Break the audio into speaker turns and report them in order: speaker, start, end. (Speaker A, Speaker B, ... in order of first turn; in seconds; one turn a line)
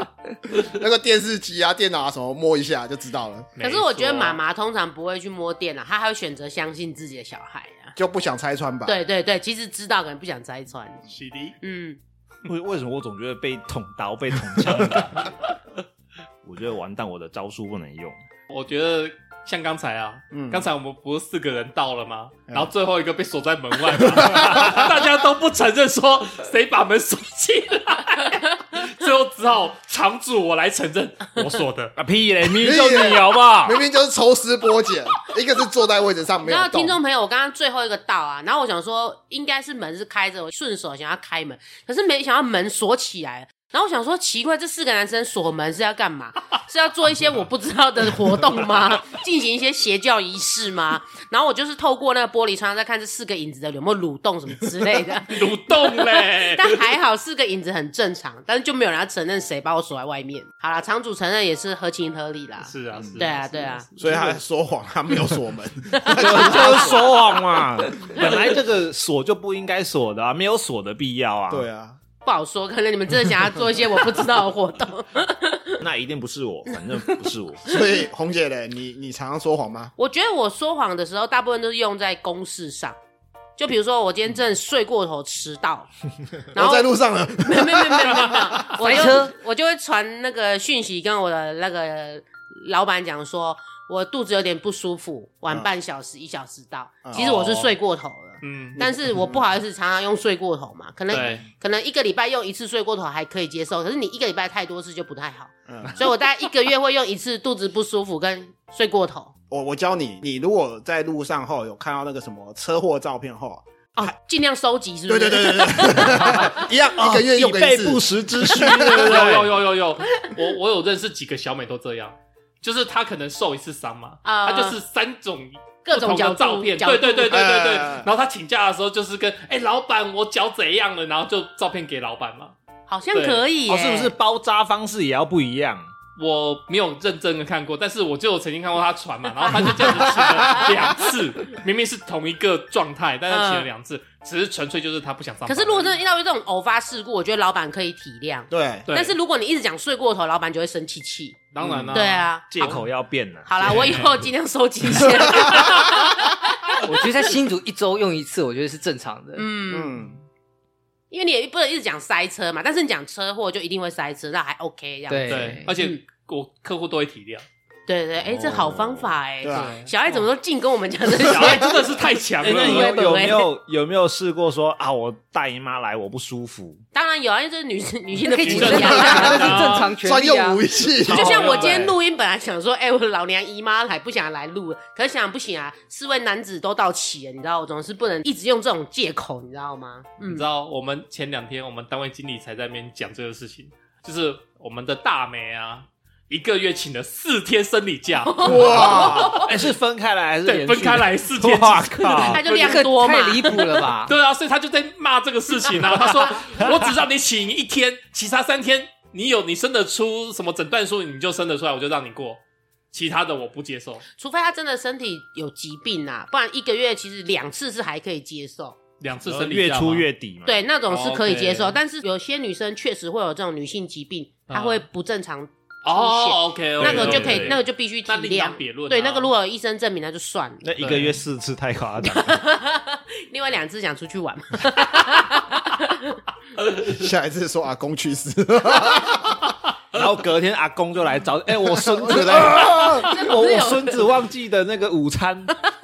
Speaker A: 0.5-3.5
Speaker B: 3.6-4.4
Speaker C: 3.6-8.0
Speaker A: 8.0-9.0
Speaker C: 8.8-11.0
Speaker B: 11.1-11.6
Speaker C: 11.6-12.0
Speaker D: 12.4-15.3
Speaker D: 16.4-18.2
Speaker B: 18.5-31.9
Speaker A: 20.3-20.6
Speaker A: 24.2-24.6
Speaker D: 31.9-33.8
Speaker A: 32.4-37.0
Speaker C: 36.4-55.4
Speaker B: 55.3-56.9
Speaker C: 56.0-64.2
Speaker B: 62.6-64.3
Speaker A: 64.0-67.0
Speaker C: 66.0-66.8
Speaker D: 66.1-71.7
Speaker A: 71.5-72.0
Speaker C: 72.2-75.8
Speaker D: 75.8-77.7
Speaker A: 77.7-79.9
Speaker C: 80.0-83.0
Speaker C: 83.6-85.9
Speaker C: 86.5-109.3
Speaker A: 86.5-88.7
Speaker E: 88.8-89.3
Speaker A: 97.0-97.4
Speaker B: 97.1-97.7
Speaker B: 98.4-98.8
Speaker A: 98.8-99.4
Speaker B: 101.1-101.5
Speaker A: 105.7-106.0
Speaker A: 109.5-113.6
Speaker C: 114.0-116.7
Speaker A: 115.1-119.4
Speaker D: 116.9-119.5
Speaker B: 118.8-132.5
Speaker C: 124.2-124.8
Speaker C: 125.8-127.4
Speaker A: 127.3-128.1
Speaker C: 132.9-134.1
Speaker B: 133.1-133.4
Speaker D: 133.7-135.9
Speaker B: 136.2-146.0
Speaker C: 139.5-140.7
Speaker C: 143.3-143.7
Speaker C: 145.4-152.5
Speaker A: 148.5-148.9
Speaker B: 148.9-149.2
Speaker B: 151.5-152.8
Speaker A: 151.6-152.0
Speaker D: 152.5-154.0
Speaker C: 153.4-156.8
Speaker B: 153.6-154.2
Speaker A: 155.2-156.0
Speaker E: 156.8-159.4
Speaker C: 159.3-160.1
Speaker A: 159.7-160.2
Speaker C: 161.1-166.0
Speaker E: 165.1-165.7
Speaker B: 165.3-167.4
Speaker C: 167.9-173.5
Speaker D: 168.2-169.1
Speaker A: 169.4-169.8
Speaker B: 169.5-170.3
Speaker B: 171.1-172.9
Speaker D: 172.4-176.8
Speaker C: 176.9-179.6
Speaker E: 178.2-180.6
Speaker B: 178.5-179.9
Speaker A: 178.9-181.4
Speaker D: 181.0-181.9
Speaker C: 181.1-190.4
Speaker B: 181.2-181.7
Speaker B: 190.2-199.4
Speaker C: 198.2-199.6
Speaker A: 198.4-199.4
Speaker D: 198.7-202.4
Speaker B: 200.4-202.9
Speaker C: 202.2-203.7
Speaker E: 202.4-204.1
Speaker B: 204.1-212.4
Speaker C: 205.7-206.4
Speaker D: 206.6-206.8
Speaker B: 212.9-214.0
Speaker C: 214.2-218.8
Speaker B: 219.0-220.1
Speaker D: 219.2-220.6
Speaker C: 220.4-230.7
Speaker B: 220.9-221.8
Speaker B: 224.5-224.8
Speaker B: 225.8-229.3
Speaker D: 226.8-227.6
Speaker D: 230.6-232.4
Speaker B: 230.8-231.2
Speaker C: 232.0-236.2
Speaker A: 236.8-239.5
Speaker D: 239.9-245.5
Speaker A: 241.6-243.0
Speaker C: 242.5-244.1